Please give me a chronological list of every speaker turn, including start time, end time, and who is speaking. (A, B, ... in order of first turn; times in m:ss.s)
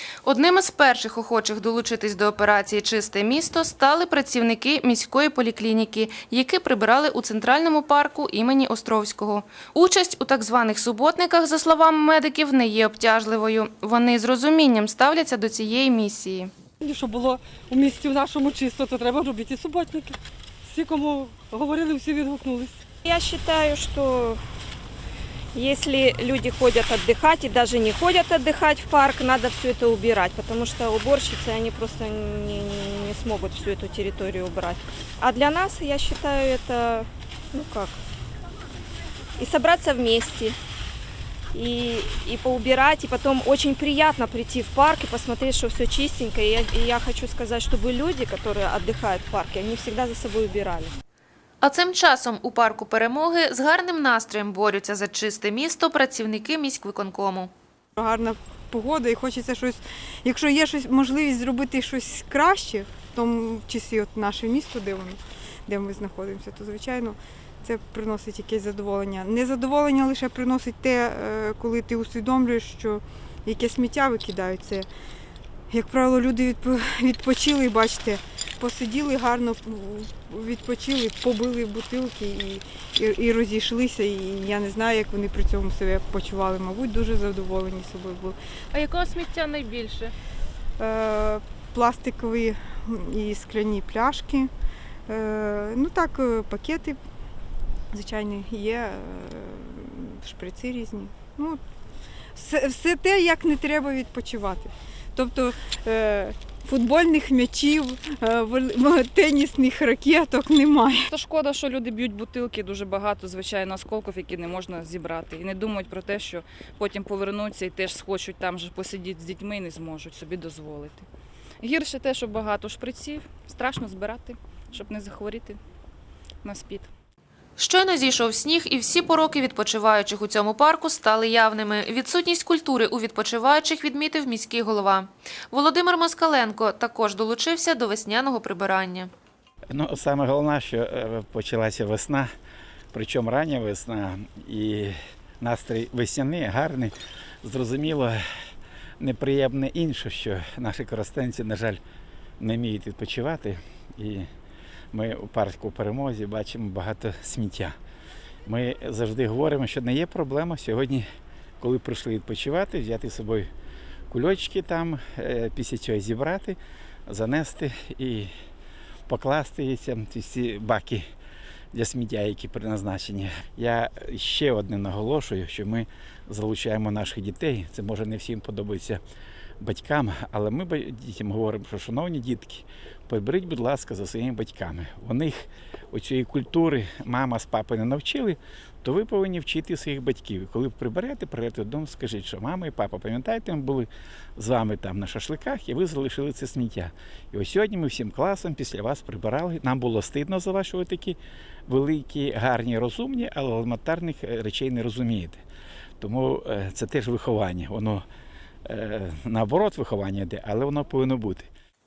0:00.2-0:16.5 A
0:16.8-0:22.8 B
0:23.0-0:24.4 C
0:25.5-0:38.0 C
0:39.4-0:40.6 C
0:41.5-0:51.0 C
0:51.6-0:57.5 A
0:58.0-1:14.9 D
1:15.7-1:28.4 D
1:28.8-1:30.1 A
1:30.8-1:34.5 D
1:35.1-1:37.0 D
1:37.9-1:41.6 D
1:42.4-1:51.1 D
1:51.1-2:01.1 E
2:01.6-2:05.6 E
2:06.4-2:06.9 E
2:07.6-2:19.1 A
2:19.7-2:22.3 F
2:22.9-2:28.2 F
2:29.0-2:31.8 F
2:32.4-2:34.3 F
2:34.9-2:37.8 F
2:38.5-2:41.0 F
2:41.6-2:43.5 F
2:44.1-2:48.3 F
2:49.1-2:51.0 F
2:51.7-2:59.0 F
2:59.6-3:25.4 F
3:26.0-3:28.1 F
3:28.7-3:31.5 F